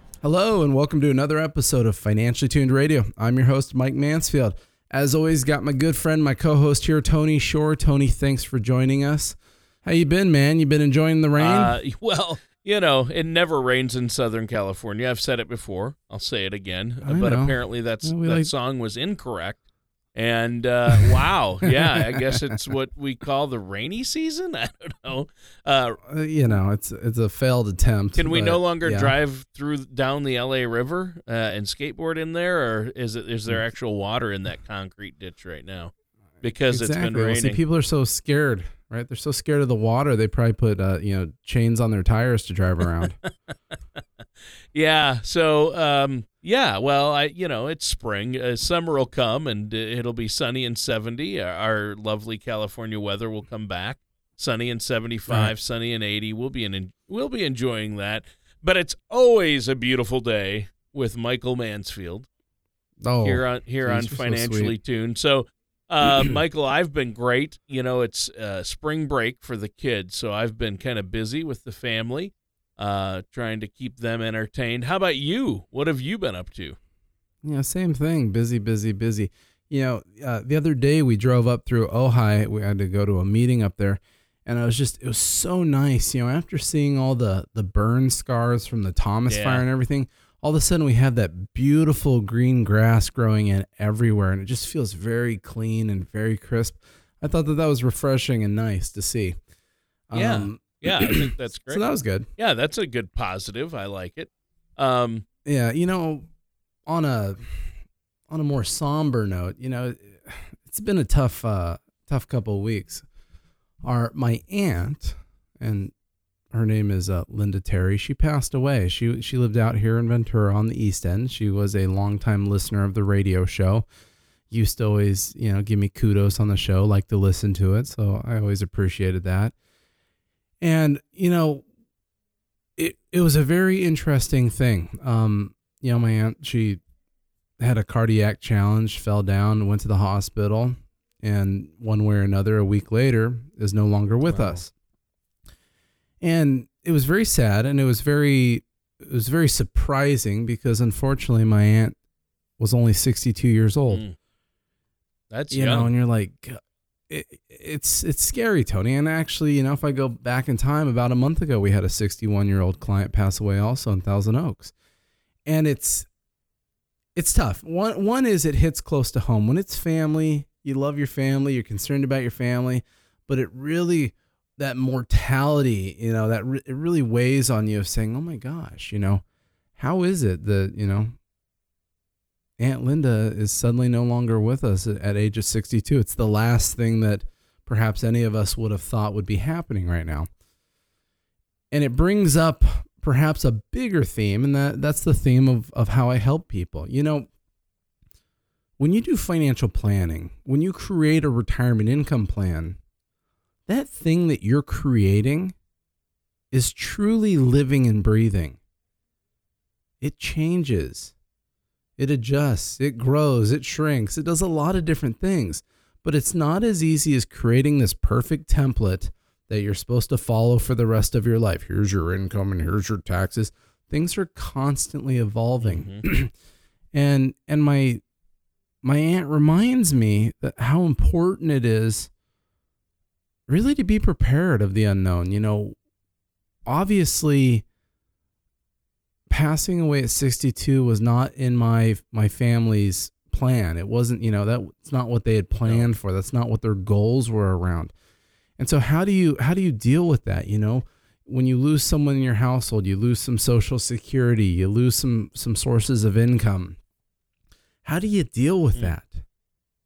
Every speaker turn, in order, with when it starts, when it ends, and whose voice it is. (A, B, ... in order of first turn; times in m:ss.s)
0:00.2-0:11.8 A
0:11.4-0:19.6 B
0:17.0-0:18.5 A
0:20.1-0:26.0 B
0:21.6-0:22.4 A
0:26.0-0:29.1 A
0:28.2-0:37.6 B
0:36.7-0:43.2 A
0:44.7-1:02.3 B
0:55.3-0:55.5 A
1:03.0-1:04.7 A
1:03.2-1:16.8 B
1:06.0-1:06.3 A
1:17.4-1:39.4 A
1:29.3-1:29.6 B
1:40.1-1:42.3 A
1:40.1-1:41.8 B
1:42.4-1:45.2 B
1:45.4-1:46.3 A
1:46.9-1:47.6 A
1:48.3-1:53.0 A
1:53.8-1:55.9 A
1:56.5-2:03.9 A
2:04.5-2:09.5 A
2:10.6-2:11.6 A
2:12.8-2:16.8 A
2:17.6-2:24.7 A
2:24.2-2:24.6 B
2:26.2-2:32.0 A
2:32.6-2:34.0 A
2:33.9-2:34.1 B
2:35.3-2:35.9 B
2:35.5-2:44.7 A
2:45.4-2:46.1 A
2:47.1-2:59.2 A
2:59.8-3:01.1 A
3:02.6-3:10.3 A
3:11.7-3:17.3 A
3:18.8-3:22.8 A
3:23.7-3:25.5 A
3:26.5-3:28.6 A
3:30.0-3:31.1 A
3:32.0-3:46.3 A
3:45.6-3:46.0 B
3:46.9-3:48.0 A
3:48.8-3:52.1 A
3:53.5-3:55.8 A
3:56.6-3:57.6 A
3:59.3-4:07.9 A
4:08.6-4:16.8 A
4:17.8-4:19.2 A